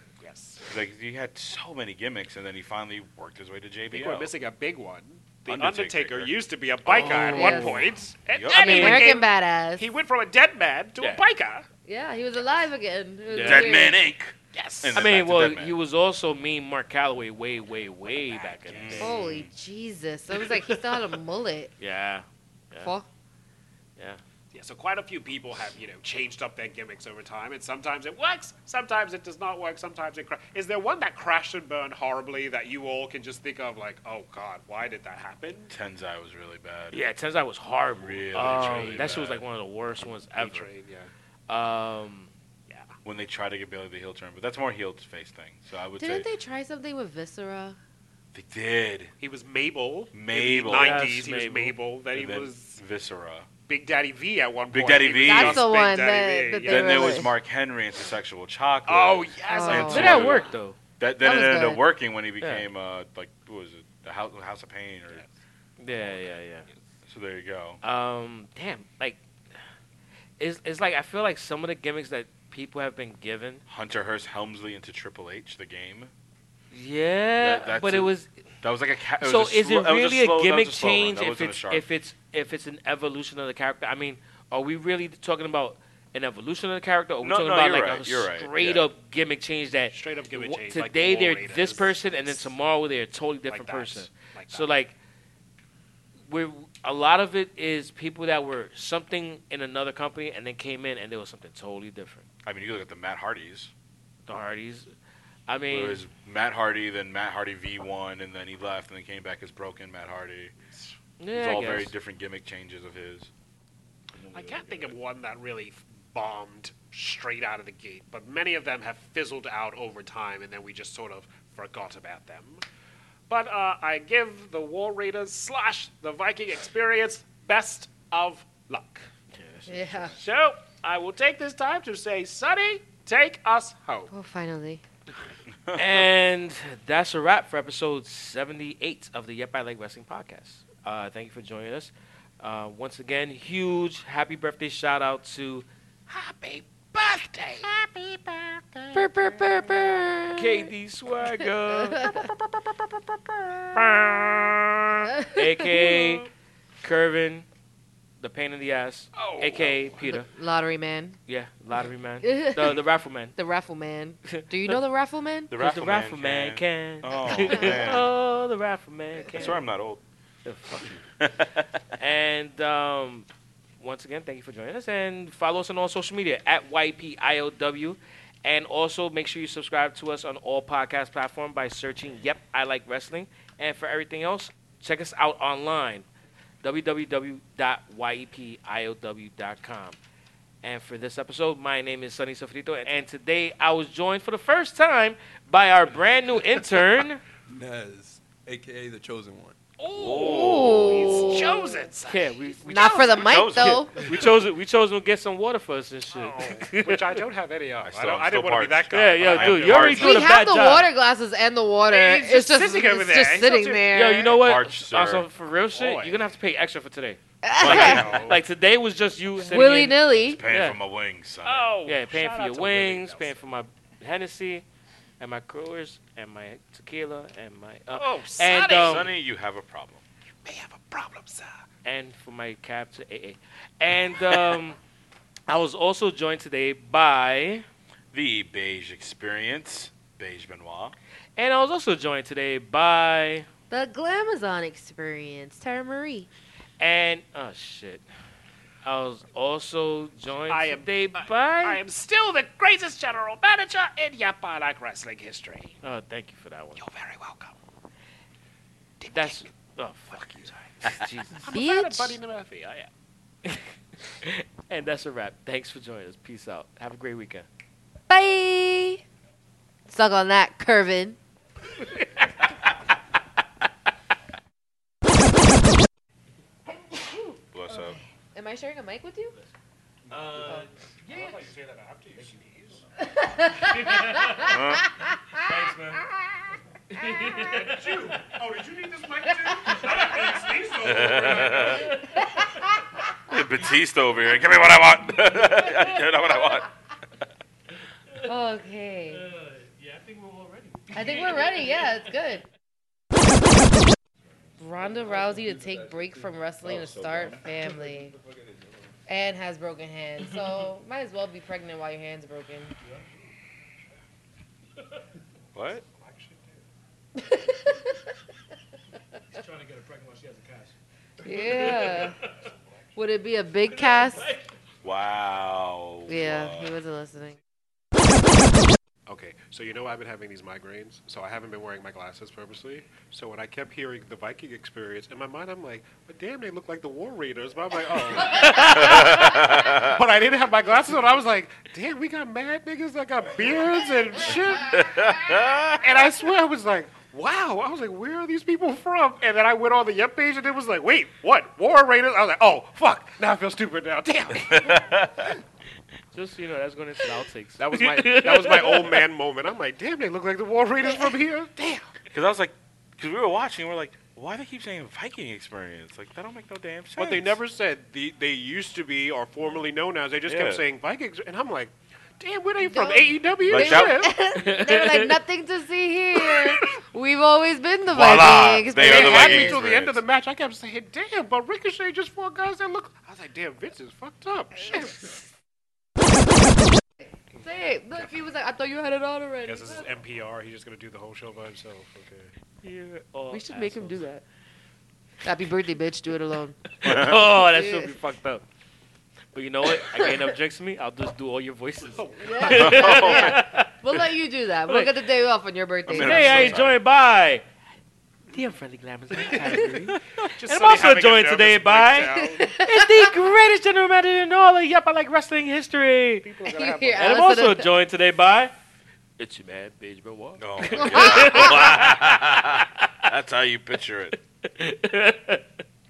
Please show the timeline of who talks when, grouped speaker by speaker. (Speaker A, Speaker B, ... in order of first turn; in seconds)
Speaker A: 0.2-0.6, 3.9-11.6, 14.5-14.9, 18.1-19.0, 24.5-35.7, 38.3-39.3, 40.0-41.1, 49.2-52.8, 53.7-57.3, 58.9-60.6, 89.9-92.5, 93.5-94.7, 114.3-122.6, 123.3-129.1, 130.2-134.1, 146.2-146.6, 147.6-149.0, 152.1-152.6, 159.1-160.1, 199.8-203.4, 206.1-210.0, 211.9-213.9, 215.7-216.2, 217.6-218.4, 221.4-223.4, 227.9-229.1, 230.4-231.6, 250.5-255.8, 256.8-257.6, 259.0-259.4, 260.1-260.6, 261.4-262.9, 281.0-282.8, 287.5-292.1, 315.9-316.6, 329.1-344.9, 345.8-355.1, 357.6-361.9, 366.9-374.1, 378.8-385.1, 389.4-392.3, 401.9-403.2, 409.1-412.5, 416.2-417.2
Speaker B: 0.6-4.3, 5.5-6.3, 8.3-9.0, 13.3-15.8, 18.7-19.5, 35.7-37.0, 38.0-39.4, 43.0-46.3, 48.3-49.1, 50.1-51.1, 52.1-53.5, 54.7-55.7, 56.6-65.2, 67.0-67.8, 73.7-76.1, 77.4-78.1, 78.6-81.8, 87.2-88.8, 102.4-103.7, 105.7-110.5, 111.3-113.3, 114.2-114.9, 135.5-136.1, 165.5-168.1, 169.3-170.0, 171.2-171.7, 199.9-201.3, 203.2-204.1, 207.8-210.3, 214.2-215.3, 217.6-218.4, 220.2-221.7, 228.7-230.0, 238.1-240.9, 277.5-278.0, 284.4-285.0, 290.8-291.9, 293.3-296.7, 315.5-315.8, 324.8-326.8, 338.6-340.0, 344.7-346.1, 354.4-355.4, 362.1-367.4, 370.3-370.6, 373.4-374.1, 377.9-380.0, 396.8-397.2, 402.5-403.5, 405.9-406.8, 420.4-424.2
Speaker C: 6.9-7.9, 8.6-9.0, 13.3-13.7, 14.9-19.2, 21.8-22.9, 36.9-40.7, 41.5-42.3, 50.7-51.8, 59.7-60.8, 62.4-62.6, 65.8-66.7, 67.8-69.2, 70.4-73.6, 76.7-78.3, 79.2-95.0, 96.3-102.2, 104.3-104.9, 105.5-106.0, 111.2-111.9, 129.3-130.2, 135.7-147.7, 150.3-152.1, 153.7-156.3, 156.8-157.5, 158.2-160.3, 161.3-163.3, 164.2-164.8, 165.5-169.6, 170.4-171.1, 171.9-173.3, 173.8-186.1, 186.6-190.0, 190.6-197.2, 202.1-207.2, 208.9-210.9, 213.9-220.8, 221.8-224.6, 225.2-229.1, 231.8-234.8, 235.5-237.6, 241.4-243.5, 246.8-248.0, 248.8-251.8, 255.8-256.8, 259.1-261.5, 263.4-267.4, 280.1-280.7, 283.7-284.5, 285.3-286.0, 286.9-287.9, 299.3-301.8, 319.3-320.7, 321.3-322.1, 323.8-324.5, 338.3-339.1, 356.1-359.0, 374.4-375.2, 392.6-394.0, 396.7-398.4, 399.3-403.7, 405.9-407.4, 408.3-416.3, 416.9-418.5, 419.2-422.6, 424.4-425.5
Speaker D: 7.1-7.8, 8.5-9.8, 11.8-14.0, 19.0-21.7, 22.8-23.1, 46.0-47.8, 55.2-57.3, 59.5-60.1, 61.2-61.8, 129.7-130.1, 134.1-134.8, 148.9-150.7, 151.7-152.3, 155.1-156.2, 160.3-161.2, 162.2-162.8, 163.3-165.5, 167.3-167.8, 200.1-201.8, 202.7-204.1, 209.9-214.4, 217.4-218.2, 219.4-220.4, 243.7-246.3, 261.5-262.2, 268.1-269.0, 269.9-271.2, 277.0-279.4, 283.1-285.4, 286.9-287.6, 291.9-292.7, 298.2-299.3, 300.9-302.4, 304.6-308.1, 309.1-312.7, 317.2-318.0, 321.2-322.2, 322.9-324.3, 326.1-327.4, 372.6-379.6, 387.4-389.9, 393.3-394.2, 395.2-396.6, 397.4-397.9, 399.8-400.2, 402.2-406.6, 412.4-413.1, 416.4-417.7, 420.8-421.6
Speaker E: 197.5-199.6